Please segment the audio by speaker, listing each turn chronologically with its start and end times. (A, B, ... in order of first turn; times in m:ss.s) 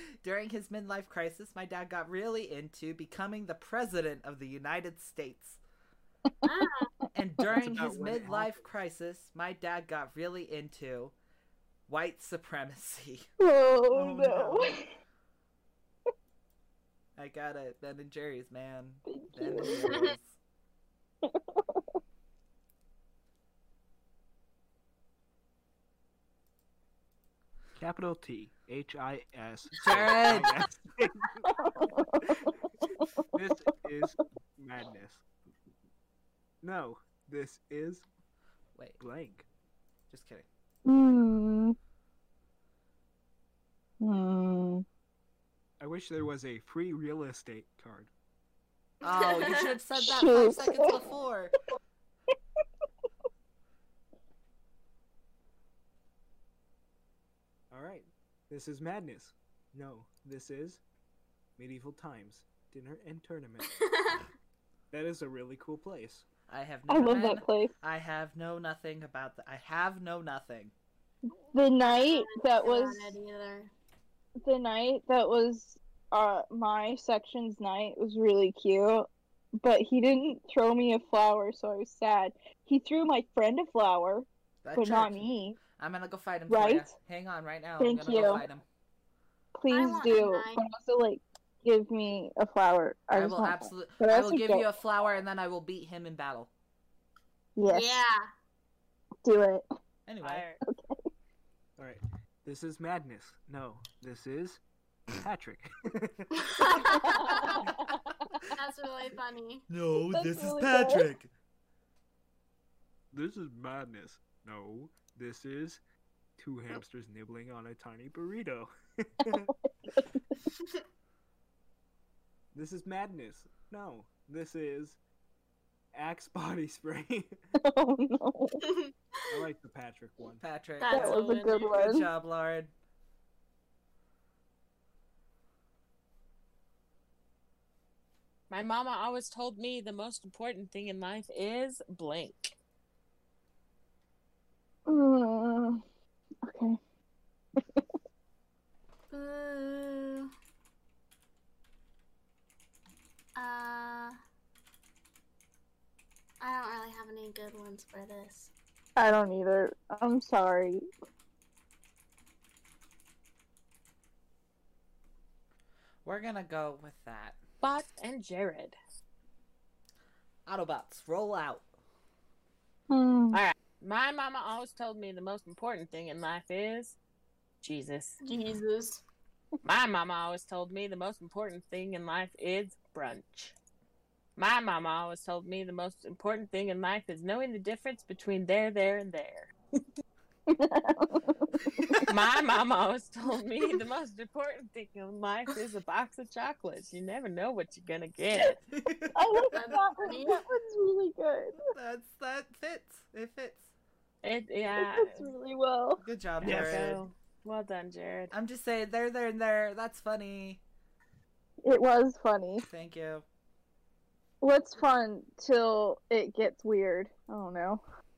0:00.2-0:05.6 A
0:06.4-0:06.9 B
0:07.1-0:11.1 A
0:07.5-0:08.7 C
0:11.9-0:13.3 A
0:13.4-0:14.9 D
0:13.9-0:14.8 A
0:17.2-0:20.3 A
0:19.1-0:20.0 D
0:19.8-0:20.1 B
0:21.2-0:21.8 D
0:27.7-0:31.7 C
0:29.8-0:30.5 A
0:31.4-0:33.2 D
0:33.2-0:35.2 C
0:36.6-0:38.0 C
0:39.0-0:39.5 C
0:40.1-0:40.4 A
0:40.8-0:41.8 D
0:44.0-0:44.8 D
0:45.8-0:48.1 C
0:49.0-0:51.5 A
0:49.3-0:49.7 B
0:49.9-0:51.0 D
0:57.7-1:00.8 C
1:01.6-1:03.8 C
1:03.6-1:04.3 B
1:04.9-1:06.2 C
1:06.5-1:10.7 A
1:06.9-1:07.7 D
1:11.3-1:13.2 D
1:11.8-1:13.7 B
1:14.4-1:25.6 D
1:24.6-1:28.6 A
1:26.5-1:26.9 D
1:27.8-1:28.5 D
1:29.5-1:34.7 D
1:29.7-1:30.6 B
1:33.1-1:36.5 A
1:37.6-1:38.0 D
1:37.7-1:38.3 B
1:39.2-1:39.6 D
1:40.1-1:40.4 A
1:40.2-1:40.6 E
1:40.6-1:41.0 D
1:41.8-1:44.6 C
1:45.1-1:46.3 C
1:46.4-1:47.6 B
1:46.9-1:48.5 D
1:48.5-1:49.7 B
1:49.7-1:51.3 A
1:50.0-1:51.1 D
1:53.1-1:55.8 C
1:56.4-1:59.5 C
1:59.4-2:00.2 D
2:02.5-2:05.0 C
2:05.9-2:07.4 C
2:07.6-2:08.6 D
2:08.6-2:08.9 B
2:09.3-2:10.4 C
2:10.4-2:12.7 A
2:10.8-2:11.7 B
2:10.9-2:12.1 D
2:11.0-2:11.7 E
2:18.5-2:22.5 E
2:24.8-2:25.8 D
2:26.4-2:26.8 D
2:27.6-2:27.8 D
2:29.1-2:30.3 B
2:33.4-2:34.2 B
2:36.4-2:38.5 B
2:39.0-2:40.8 D
2:46.0-2:47.4 A
2:47.6-2:48.8 E
2:50.4-2:51.6 A
2:52.9-2:53.4 D
2:53.3-2:57.0 E
2:57.6-2:58.2 E
2:58.2-2:59.0 B
2:59.6-3:03.5 E
3:04.4-3:09.5 E
3:10.5-3:12.1 D
3:11.7-3:12.1 A
3:12.1-3:18.6 E
3:18.7-3:19.5 A
3:19.1-3:21.7 D
3:19.5-3:20.4 B
3:21.7-3:23.7 A
3:24.2-3:25.3 E
3:24.7-3:26.0 D
3:26.0-3:27.0 A
3:26.4-3:27.0 C
3:26.4-3:28.3 E
3:28.3-3:30.6 A
3:31.6-3:32.6 D
3:32.6-3:33.2 A
3:34.4-3:37.8 D